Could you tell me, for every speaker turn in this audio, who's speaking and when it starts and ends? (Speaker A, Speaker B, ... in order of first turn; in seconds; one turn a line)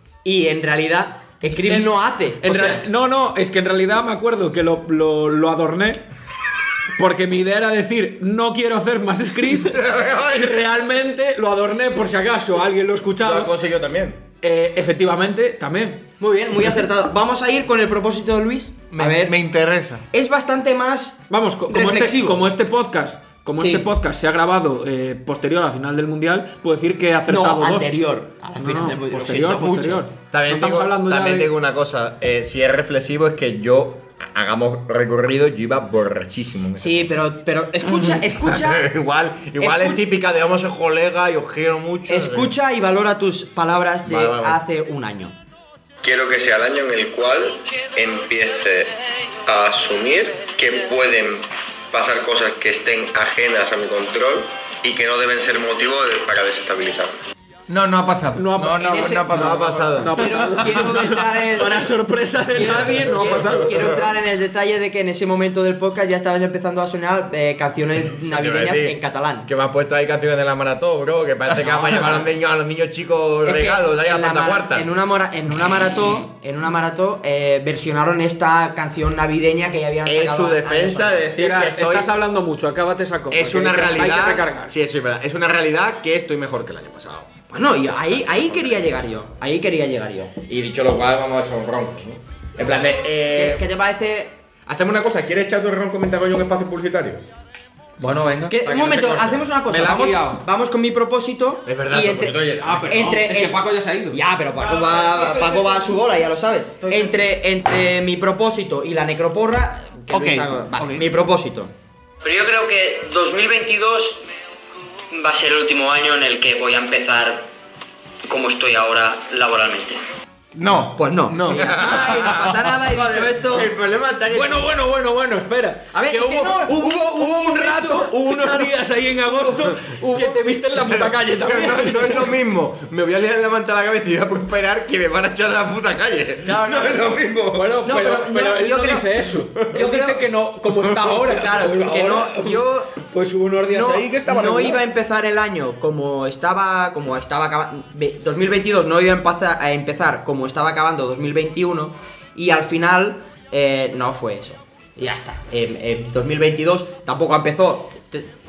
Speaker A: 0.2-2.8
Speaker B: 1.6-6.0
Speaker B: 7.0-13.5
Speaker C: 9.6-10.5
Speaker C: 13.2-14.2
Speaker B: 14.4-16.0
Speaker A: 16.2-19.3
Speaker D: 18.9-20.0
Speaker A: 20.1-22.5
Speaker B: 21.3-27.9
Speaker A: 23.6-23.9
Speaker A: 27.3-30.0
Speaker B: 28.6-31.5
Speaker C: 30.3-37.1
Speaker A: 36.8-38.9
Speaker C: 38.2-42.5
Speaker A: 39.6-40.0
Speaker A: 42.1-45.4
Speaker C: 44.0-44.6
Speaker E: 46.0-57.1
Speaker D: 57.7-59.5
Speaker B: 58.4-64.0
Speaker A: 58.8-59.6
Speaker C: 58.9-60.1
Speaker A: 60.2-61.9
Speaker A: 62.5-69.5
Speaker C: 68.2-74.9
Speaker A: 73.4-81.2
Speaker C: 80.0-82.1
Speaker B: 81.4-84.7
Speaker C: 83.3-87.3
Speaker A: 87.5-90.3
Speaker C: 88.0-88.8
Speaker C: 90.5-93.6
Speaker A: 93.3-94.4
Speaker C: 94.7-97.2
Speaker B: 98.0-98.6
Speaker A: 98.5-111.7
Speaker C: 98.6-99.5
Speaker B: 99.7-100.4
Speaker C: 101.7-103.0
Speaker B: 102.6-104.2
Speaker D: 106.9-107.2
Speaker D: 110.1-111.0
Speaker F: 112.2-114.2
Speaker F: 115.1-117.5
Speaker F: 118.3-120.0
Speaker D: 120.5-122.4
Speaker A: 121.0-123.7
Speaker C: 121.5-124.7
Speaker B: 124.3-132.4
Speaker A: 125.9-128.7
Speaker A: 129.3-130.4
Speaker C: 130.8-137.7
Speaker A: 136.4-137.1
Speaker B: 137.5-144.8
Speaker A: 137.8-140.2
Speaker A: 141.2-143.0
Speaker A: 143.7-158.3